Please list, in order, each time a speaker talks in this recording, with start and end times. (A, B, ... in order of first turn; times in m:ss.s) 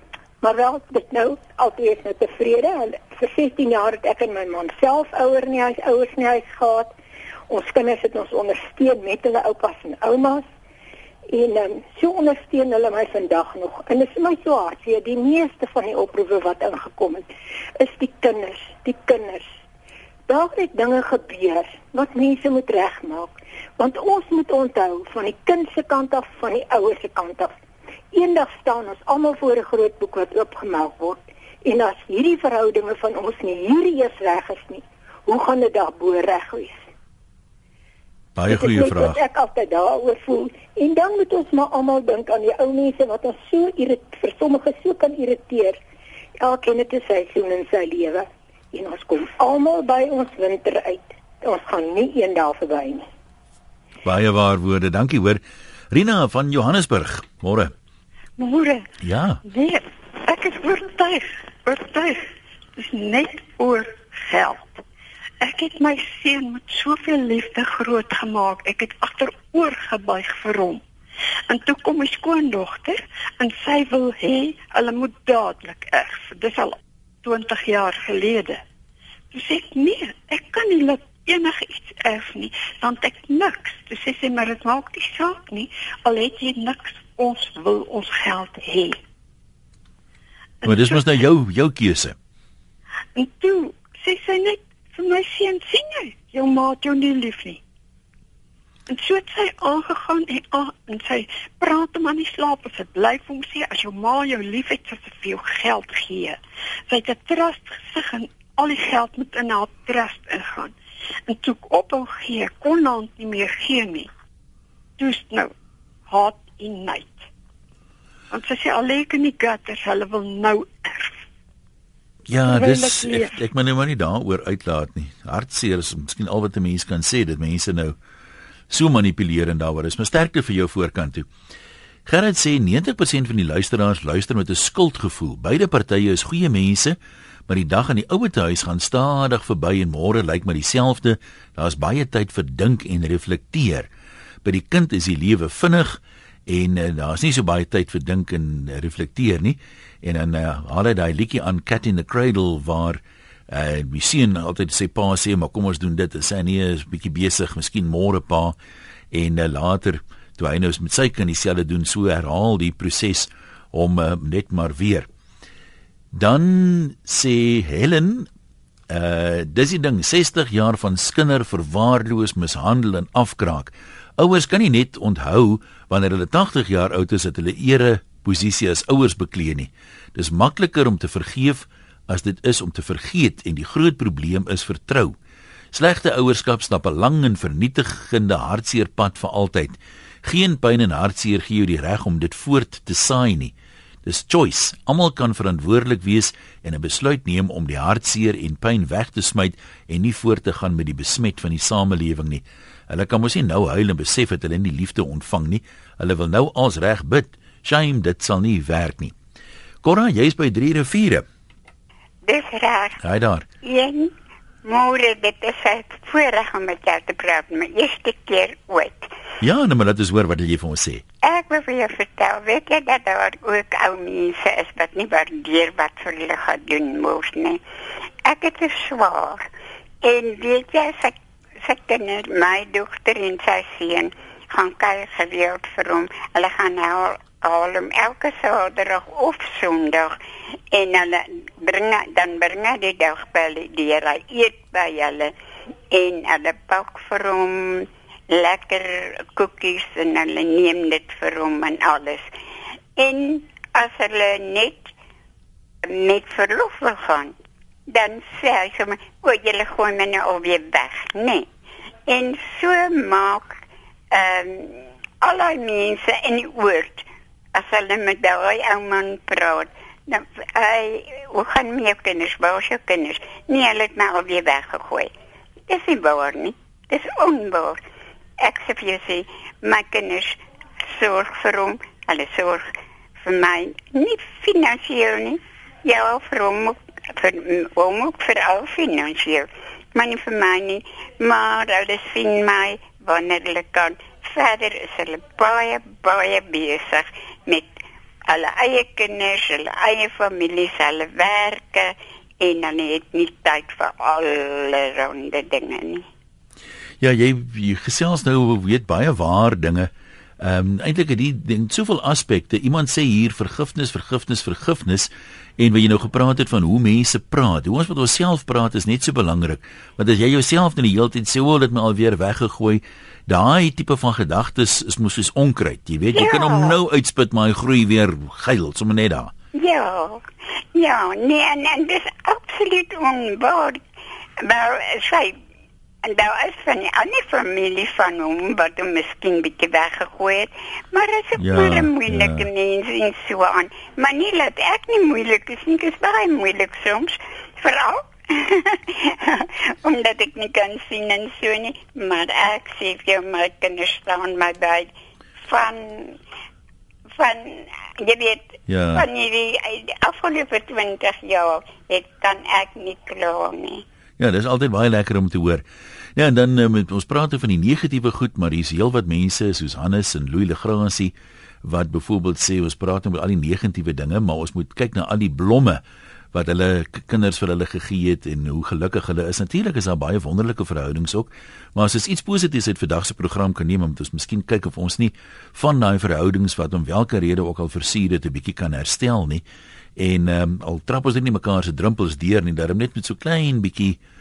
0:00.4-0:06.9 A
0:07.5-0:10.4 A
0:11.3-0:17.3 A
0:17.8-0:19.5 A
0:20.3-0:27.5 A
0:28.1-0:36.8 A
0:38.4-0:39.2 B
0:38.5-0:45.8 A
0:46.4-0:53.1 A
0:54.0-0:55.4 B
0:55.9-0:57.7 B
0:58.4-0:58.9 C
0:59.0-0:59.4 B
0:59.4-1:02.2 C
1:02.8-1:04.8 C
1:05.4-1:10.8 C
1:11.5-1:18.6 C
1:19.3-1:29.0 C
1:30.6-1:31.1 C
1:30.6-1:32.2 B
1:33.2-1:37.6 C
1:38.9-1:46.4 C
1:46.9-1:50.8 C
1:51.3-1:54.1 C
1:55.0-1:55.5 C
1:56.1-1:57.3 C
1:58.3-2:01.1 C
2:02.3-2:08.0 B
2:02.5-2:03.4 C
2:08.7-2:11.3 B
2:12.1-2:17.0 B
2:17.5-2:23.9 B
2:24.4-2:38.6 B
2:39.1-2:45.1 B
2:46.1-2:48.3 B
2:48.9-3:05.2 B
3:05.7-3:13.5 B
3:14.1-3:29.1 B
3:29.8-3:31.2 B
3:32.3-3:32.9 D
3:33.0-3:33.4 B
3:33.6-3:34.0 D
3:34.7-3:39.0 D
3:39.4-3:41.0 B
3:41.3-3:47.6 D
3:48.3-3:49.4 D
3:50.0-3:51.1 D
3:51.6-4:00.1 D
4:00.7-4:05.3 D
4:05.9-4:07.8 D
4:08.3-4:12.3 D
4:13.0-4:14.8 D
4:15.9-4:17.3 D
4:17.9-4:21.4 D
4:22.1-4:23.5 D
4:24.1-4:27.0 D
4:27.6-4:35.1 D
4:35.7-4:37.8 D
4:38.4-4:40.4 D
4:41.0-4:42.7 D
4:43.2-4:57.6 D
4:58.3-5:01.8 D
5:02.4-5:06.0 D
5:07.0-5:09.9 B
5:10.4-5:29.3 B
5:29.7-5:30.2 D
5:30.8-5:33.8 D
5:34.5-5:35.3 D
5:36.0-5:48.0 D
5:41.4-5:42.5 B
5:49.8-5:54.9 D
5:55.5-5:56.1 D
5:57.2-5:58.4 D
5:58.7-5:59.0 B
5:59.0-6:03.8 D
6:04.2-6:05.6 B
6:06.2-6:11.1 B
6:11.6-6:15.8 B
6:16.3-6:29.4 B
6:30.0-6:34.0 B